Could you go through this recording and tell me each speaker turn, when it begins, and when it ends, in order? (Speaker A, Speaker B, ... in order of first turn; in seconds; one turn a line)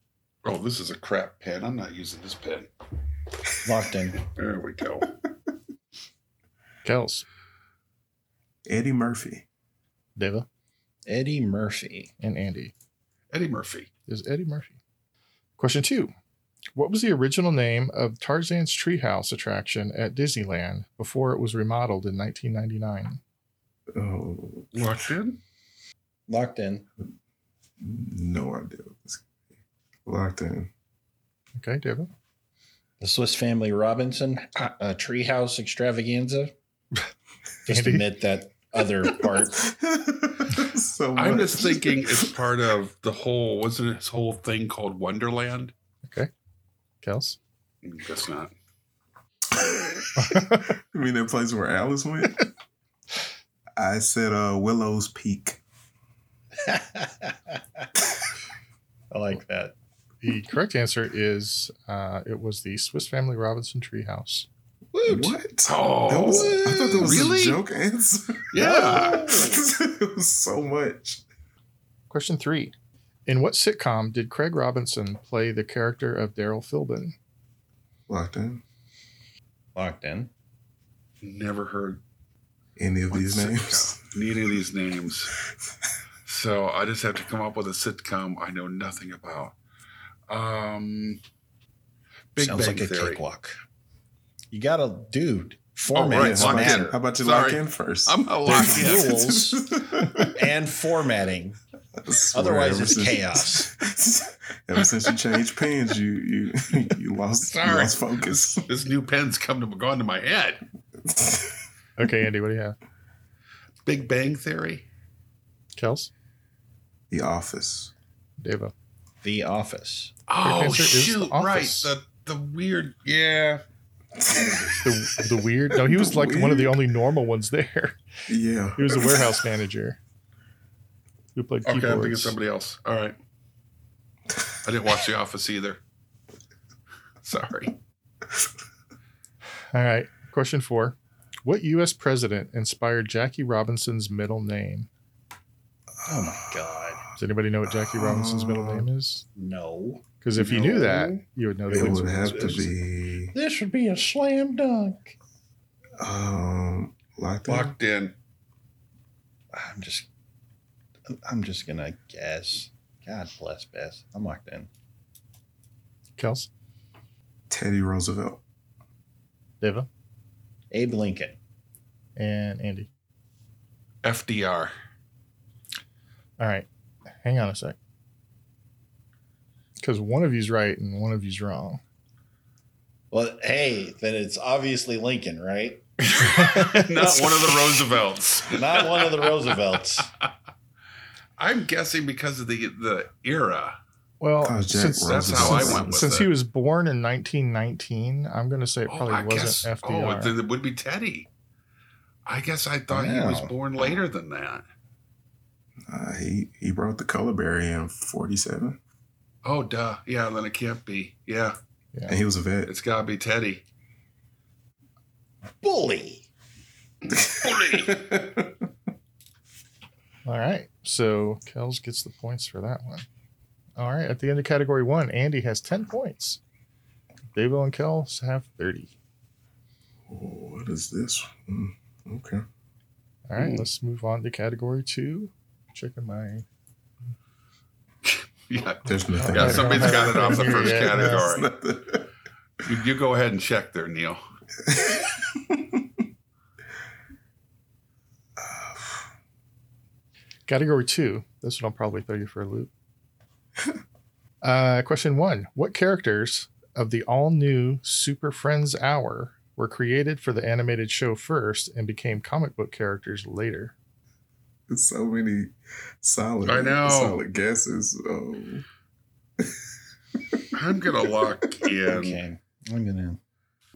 Speaker A: 0.4-2.7
Speaker B: 3.6-4.2
Speaker A: 4.3-5.1
Speaker C: 6.8-7.2
Speaker D: 8.7-9.4
Speaker C: 10.2-10.5
Speaker B: 11.1-12.1
Speaker C: 12.2-12.7
Speaker A: 13.3-13.9
Speaker C: 14.1-14.8
Speaker C: 15.6-16.1
Speaker C: 16.8-23.2
Speaker D: 23.9-24.9
Speaker A: 24.7-25.4
Speaker B: 26.3-26.9
Speaker D: 27.8-29.3
Speaker D: 30.1-30.7
Speaker C: 31.6-32.1
Speaker B: 33.0-36.5
Speaker B: 37.7-39.6
Speaker C: 37.7-38.0
Speaker D: 39.6-42.3
Speaker A: 41.1-45.7
Speaker C: 46.1-46.3
Speaker C: 47.0-47.4
Speaker A: 47.8-48.5
Speaker D: 49.5-52.5
Speaker C: 50.2-50.7
Speaker D: 53.8-55.6
Speaker B: 56.6-57.6
Speaker B: 59.1-59.8
Speaker C: 60.2-64.5
Speaker B: 64.9-65.4
Speaker D: 65.0-71.2
Speaker A: 65.7-67.6
Speaker B: 66.1-67.3
Speaker A: 68.5-69.5
Speaker B: 68.5-69.6
Speaker C: 72.1-72.7
Speaker C: 73.2-77.2
Speaker D: 78.1-78.6
Speaker B: 79.8-80.3
Speaker A: 81.2-82.0
Speaker D: 82.8-84.0
Speaker A: 83.1-85.3
Speaker A: 86.2-89.5
Speaker A: 90.3-91.2
Speaker A: 92.3-93.2
Speaker B: 92.4-93.6
Speaker B: 94.5-97.0
Speaker A: 95.9-99.3
Speaker D: 96.1-100.5
Speaker B: 98.4-99.6
Speaker B: 100.2-101.6
Speaker D: 102.0-108.6
Speaker B: 102.3-103.7
Speaker A: 107.4-110.6
Speaker D: 111.0-111.6
Speaker C: 112.0-112.8
Speaker A: 113.9-114.8
Speaker C: 115.8-116.1
Speaker D: 117.1-117.9
Speaker C: 118.4-118.7
Speaker B: 119.2-120.1
Speaker A: 120.3-123.6
Speaker C: 120.4-121.9
Speaker D: 124.2-126.9
Speaker C: 124.8-128.1
Speaker D: 128.3-129.4
Speaker C: 128.8-130.0
Speaker C: 131.3-132.4
Speaker A: 131.7-133.1
Speaker A: 134.6-135.8
Speaker A: 137.2-137.8
Speaker C: 139.7-144.9
Speaker B: 146.1-147.1
Speaker D: 146.1-146.8
Speaker C: 147.2-149.2
Speaker D: 147.7-148.9
Speaker B: 149.3-150.0
Speaker C: 150.2-152.7
Speaker D: 150.4-153.3
Speaker B: 153.3-155.2
Speaker D: 156.0-157.8
Speaker A: 157.5-158.1
Speaker B: 159.5-160.1
Speaker B: 161.1-164.7
Speaker C: 166.2-166.5
Speaker D: 167.5-168.4
Speaker C: 169.6-169.9
Speaker B: 170.7-171.4
Speaker C: 172.2-172.9
Speaker A: 174.0-174.7
Speaker C: 176.4-176.7
Speaker C: 177.2-177.8
Speaker C: 179.8-181.8
Speaker B: 183.1-185.8
Speaker A: 186.1-189.5
Speaker C: 186.1-187.3
Speaker B: 188.5-190.1
Speaker A: 191.4-193.8
Speaker C: 194.2-200.3
Speaker D: 194.4-196.3
Speaker A: 195.1-196.3
Speaker A: 198.9-201.3
Speaker A: 202.2-204.6
Speaker B: 202.9-203.5
Speaker D: 205.8-208.8
Speaker A: 209.4-211.6
Speaker C: 211.9-212.2
Speaker D: 212.1-212.7
Speaker A: 212.7-213.6
Speaker B: 215.6-216.2
Speaker A: 217.1-218.0
Speaker D: 217.1-218.7
Speaker C: 220.2-223.1
Speaker C: 223.8-226.4
Speaker C: 227.3-228.9
Speaker D: 230.1-232.4
Speaker C: 233.3-236.4
Speaker A: 233.4-233.6
Speaker A: 238.0-241.5
Speaker D: 238.9-242.1
Speaker C: 239.2-241.2
Speaker A: 242.6-244.2
Speaker D: 244.7-246.0
Speaker D: 248.4-249.1
Speaker C: 250.5-252.7
Speaker C: 254.4-263.7
Speaker D: 264.7-268.6
Speaker A: 266.4-267.2
Speaker A: 270.5-272.2
Speaker B: 271.9-273.2